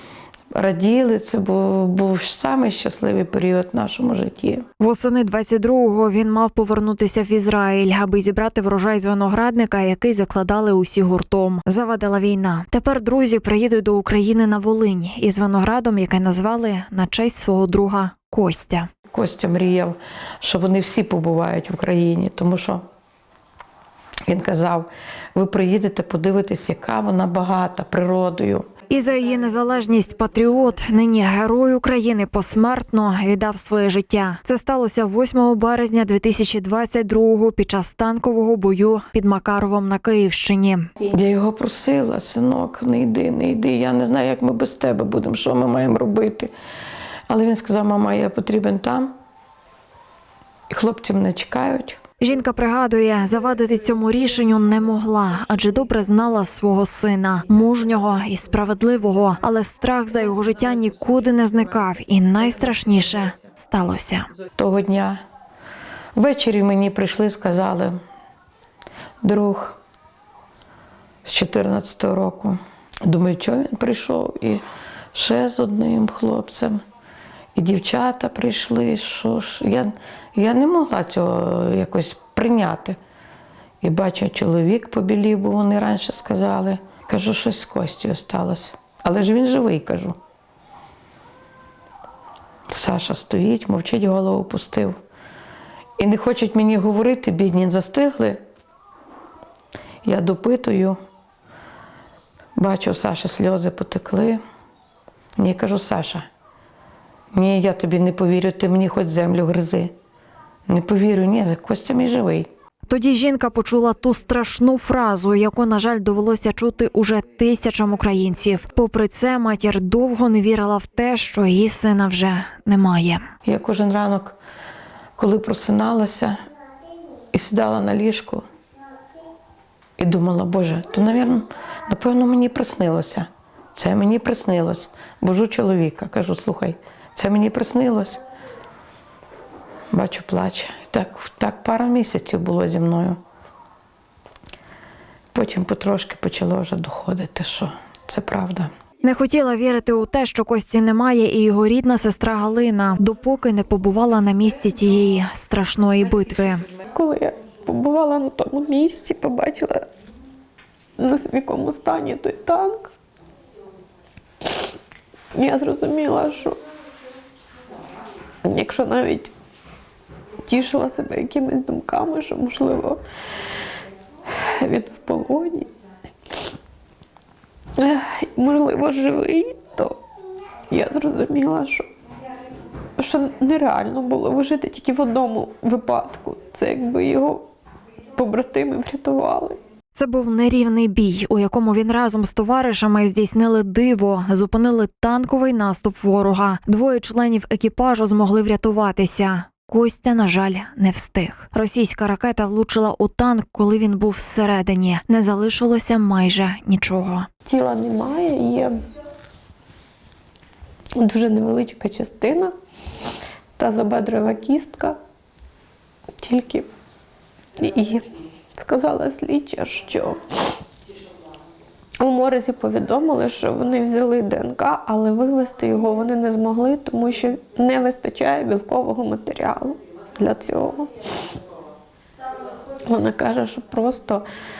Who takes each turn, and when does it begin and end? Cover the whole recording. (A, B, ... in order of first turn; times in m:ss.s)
0:00.5-0:04.7 A
0:04.8-0:18.9 B
0:19.1-0:22.8 A
0:24.3-0:28.7 A
0:28.9-0:40.9 B
0:41.1-0:46.5 A
0:47.3-0:49.1 A
0:50.7-0:52.0 A
0:52.2-1:04.3 B
1:04.6-1:05.2 A
1:06.1-1:08.0 A
1:09.2-1:09.8 A
1:11.2-1:14.6 A
1:15.1-1:16.8 A
1:17.5-1:23.0 A
1:23.8-1:30.2 A
1:32.7-1:35.0 A
1:36.0-1:38.4 A
1:40.0-1:41.0 A
1:42.6-1:44.4 A
1:45.4-1:46.3 A
1:47.3-1:49.9 A
1:50.7-1:52.5 A
1:52.9-2:03.2 B
2:03.4-2:04.4 A
2:05.2-2:06.4 A
2:07.3-2:08.4 A
2:10.0-2:18.2 A
2:19.9-2:23.2 A
2:25.3-2:28.7 A
2:29.0-2:36.6 B
2:36.9-2:39.8 C
2:41.0-2:42.9 C
2:45.3-2:46.6 C
2:48.4-2:49.3 C
2:50.4-2:53.0 C
2:54.2-2:55.7 C
2:57.8-3:00.0 C
3:00.7-3:01.9 C
3:03.0-3:07.4 C
3:08.2-3:09.6 C
3:09.9-3:27.3 B
3:27.4-3:28.8 C
3:31.0-3:32.5 C
3:33.6-3:35.0 C
3:36.2-3:36.7 C
3:37.6-3:40.2 C
3:42.0-3:50.9 C
3:52.9-3:54.2 C